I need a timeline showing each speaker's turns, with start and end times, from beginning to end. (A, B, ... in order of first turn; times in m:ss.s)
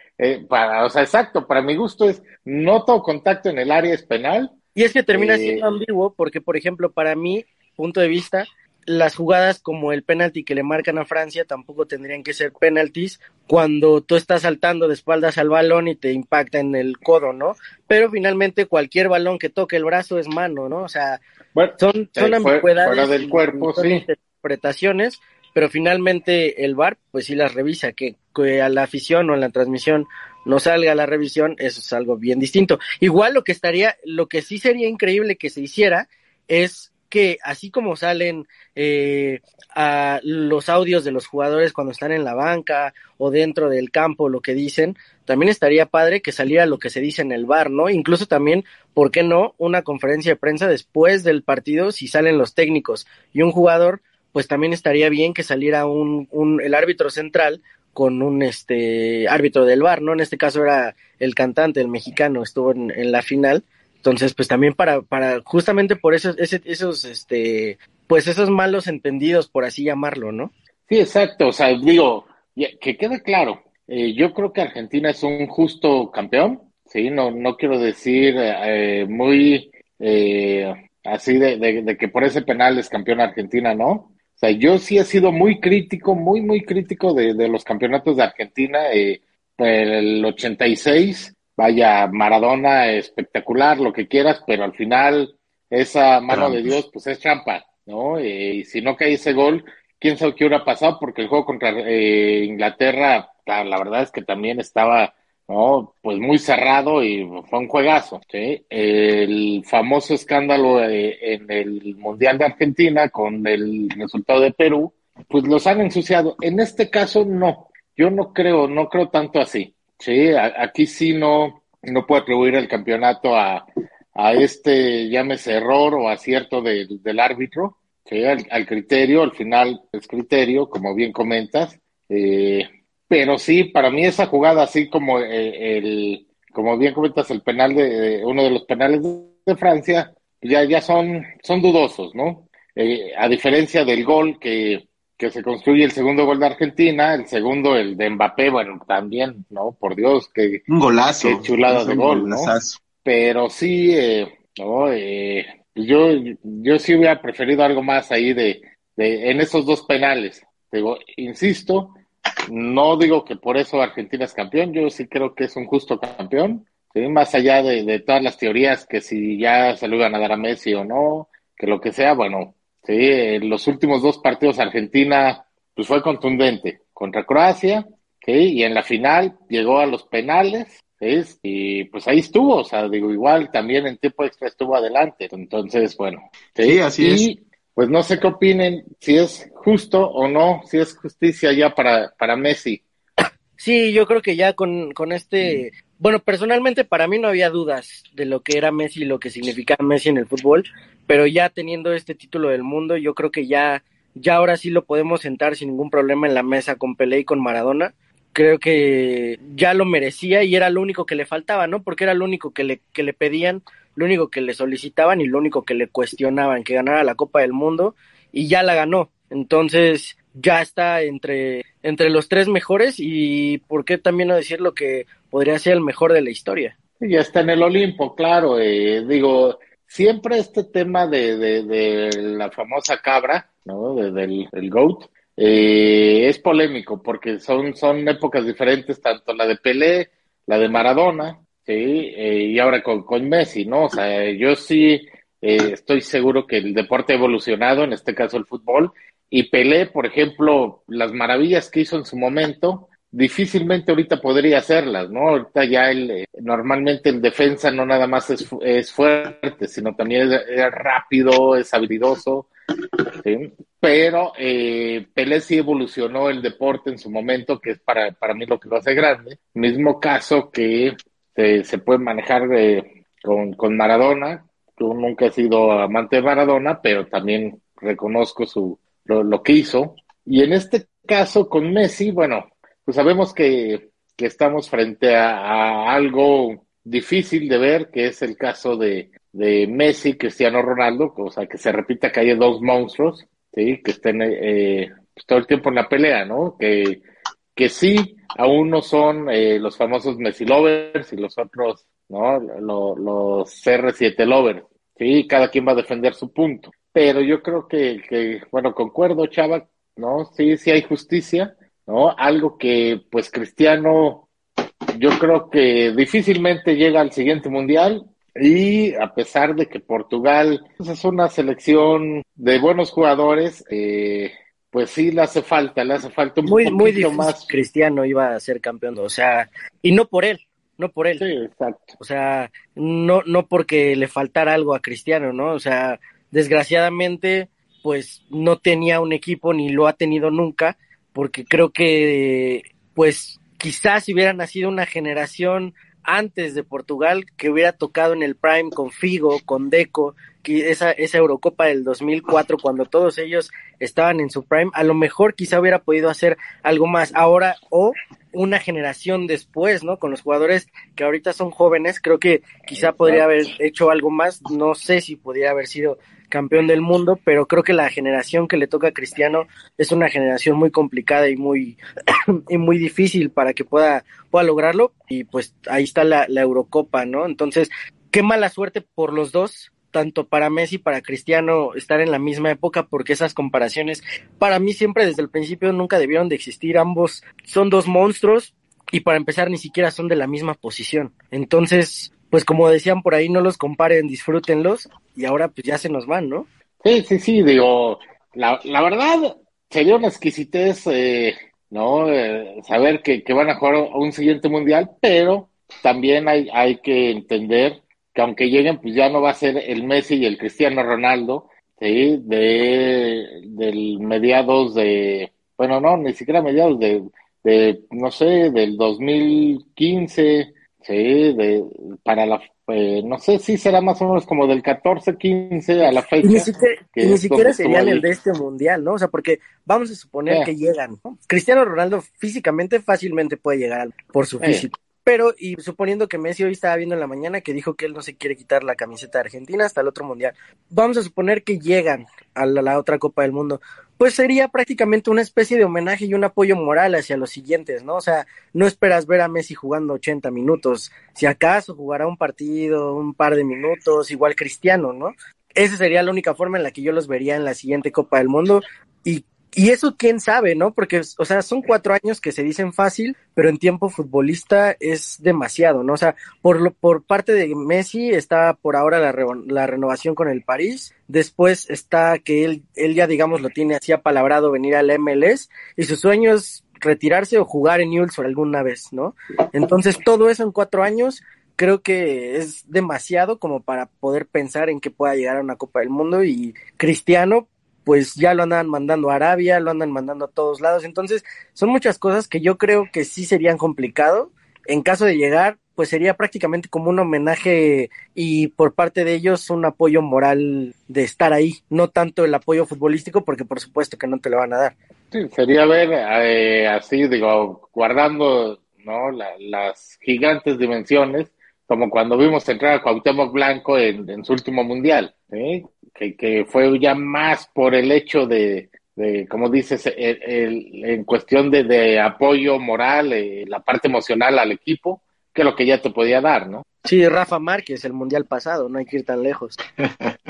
0:00.2-0:04.6 A
0:04.8-0:21.2 B
0:05.1-0:05.6 A
0:21.6-0:24.0 A
0:21.8-1:10.5 B
1:10.9-2:30.6 A
1:36.3-1:36.8 C
2:30.7-2:32.8 C
2:31.2-2:32.5 A
2:33.0-2:42.0 A
2:42.5-3:12.8 A
3:06.6-3:07.3 C
3:13.6-3:46.7 B
3:47.0-4:22.5 A
4:23.2-4:57.0 A
4:57.6-5:14.3 A
5:14.9-5:27.5 A
5:26.4-5:31.2 B
5:31.2-5:32.0 A
5:32.0-6:11.8 B
6:02.8-6:03.2 A
6:12.5-6:36.5 B
6:36.8-7:08.0 A
7:05.8-8:24.8 B
8:25.1-8:46.6 A
8:46.8-8:49.6 B
8:49.8-8:50.2 C